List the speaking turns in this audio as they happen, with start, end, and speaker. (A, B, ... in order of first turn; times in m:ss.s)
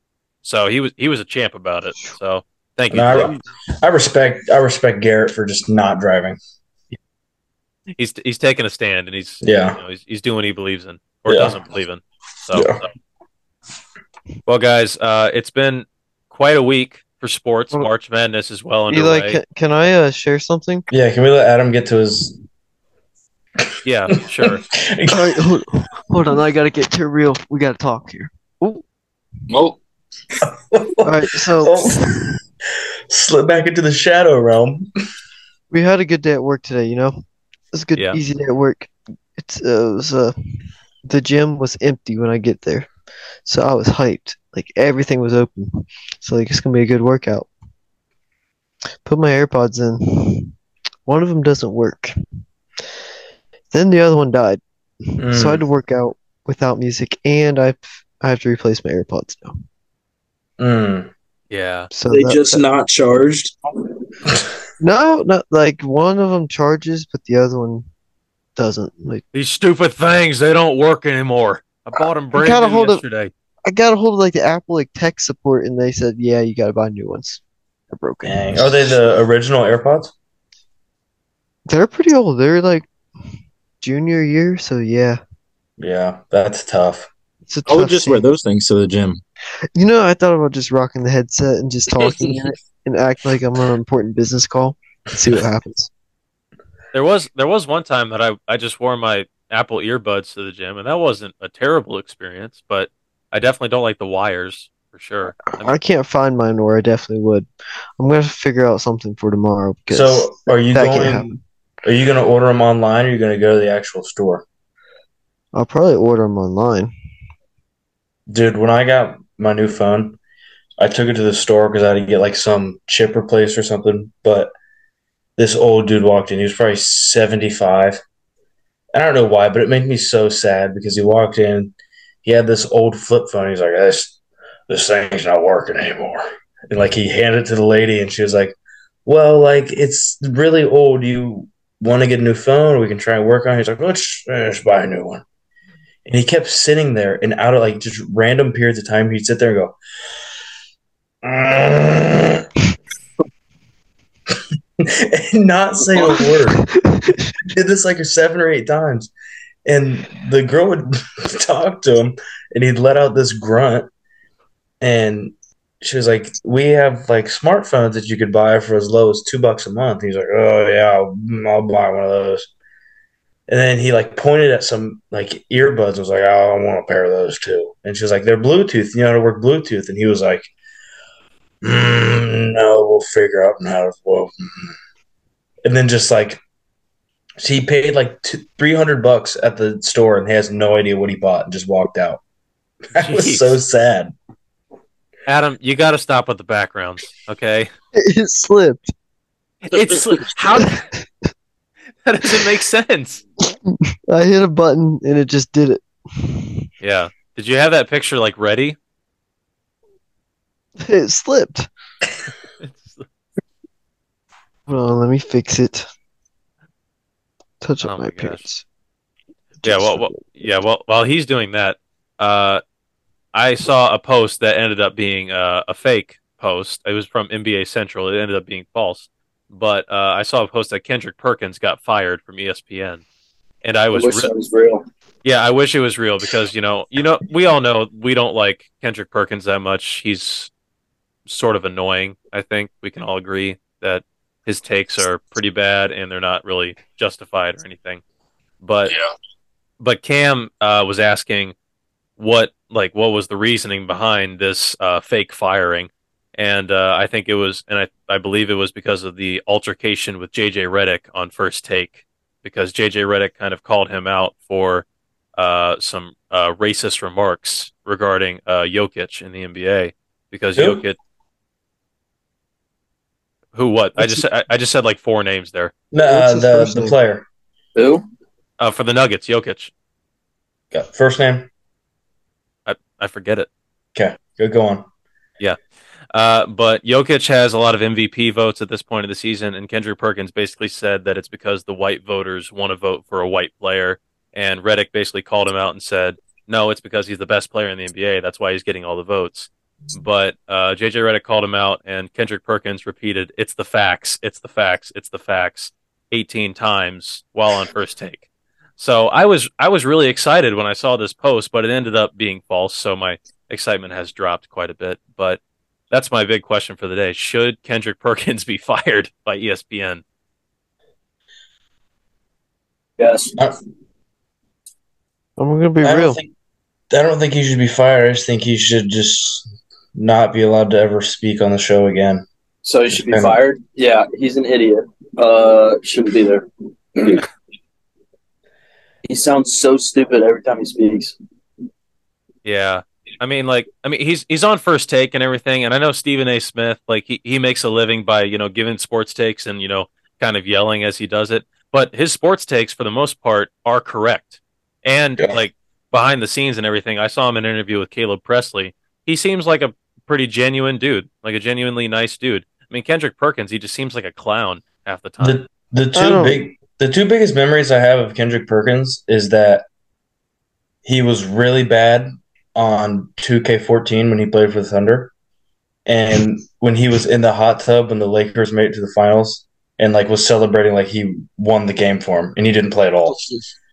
0:00.4-0:03.4 A
0:02.9-0:06.4 B
0:08.0-0:12.7 A
0:09.4-0:09.8 B
0:11.3-0:11.6 B
0:12.5-0:12.8 B
0:14.5-0:19.4 A
0:18.9-0:20.9 C
0:20.9-0:22.4 B
0:23.8-0:24.6 A
0:24.8-0:25.3 B
0:25.1-0:28.8 C
0:29.5-0:29.8 D
0:30.4-0:32.4 B
0:31.0-0:32.0 C
0:33.1-0:34.9 B
0:35.7-0:37.2 C
0:37.7-0:40.4 C
0:41.0-0:42.9 C
0:43.4-0:47.5 C
0:49.0-0:50.5 C
0:51.1-0:52.1 C
0:53.7-0:59.6 C
0:55.2-0:55.6 B
1:00.6-1:01.1 B
1:01.5-1:01.9 A
1:01.9-1:02.7 C
1:02.1-1:03.5 B
1:04.8-1:07.9 C
1:08.6-1:09.2 C
1:09.3-1:13.3 A
1:12.4-1:13.0 C
1:13.7-1:19.0 C
1:18.2-1:20.1 B
1:21.7-1:22.9 C
1:23.8-1:25.2 C
1:25.8-1:27.1 B
1:27.5-1:28.3 C
1:27.7-1:29.2 D
1:29.8-1:35.9 C
1:32.0-1:32.3 D
1:36.9-1:45.7 A
1:45.5-1:51.4 C
1:49.9-1:54.4 B
1:55.5-1:56.9 C
1:58.3-2:00.2 B
2:00.8-2:04.5 B
2:05.4-2:08.0 B
2:08.9-2:14.2 B
2:14.7-2:25.2 B
2:26.0-2:29.8 B
2:31.2-2:32.5 B
2:34.8-2:36.7 B
2:36.8-2:37.3 C
2:37.5-2:39.1 B
2:39.6-2:43.9 B
2:44.8-2:52.5 B
2:53.5-3:00.5 B
3:01.6-3:04.8 B
3:05.6-3:06.4 B
3:07.4-3:12.2 B
3:12.9-3:14.1 B
3:12.9-3:13.6 A
3:15.3-3:17.7 A
3:18.0-3:18.9 C
3:19.6-3:20.8 A
3:19.7-3:20.2 D
3:22.0-3:23.2 A
3:23.5-3:26.7 C
3:26.8-3:28.8 A
3:30.8-3:31.7 C
3:32.6-3:33.0 A
3:34.7-3:35.9 C
3:37.6-3:38.6 C
3:37.8-3:38.5 A
3:39.6-3:40.3 C
3:39.6-3:42.6 A
3:43.3-3:53.0 A
3:53.6-3:54.3 A
3:53.9-3:54.8 E
3:55.2-4:00.5 A
4:01.3-4:08.0 A
4:08.6-4:08.9 A
4:09.8-4:11.5 A
4:12.2-4:31.0 A
4:30.6-4:30.8 B
4:33.5-4:35.7 A
4:35.9-4:37.3 B
4:36.0-4:37.0 C
4:37.8-4:38.0 E
4:38.6-4:39.7 A
4:40.7-4:41.5 B
4:42.7-4:43.5 A
4:44.0-4:44.9 B
4:46.1-5:08.3 A
5:08.8-5:15.4 A
5:15.9-5:20.0 A
5:23.0-5:23.5 E
5:25.4-5:26.2 C
5:25.8-5:26.3 B
5:26.9-5:32.3 B
5:32.6-5:37.2 E
5:32.9-5:33.4 B
5:39.1-5:41.2 E
5:42.4-6:05.4 A
6:05.2-6:09.7 B
6:05.9-6:06.4 C
6:10.8-6:15.1 B
6:15.9-6:23.2 B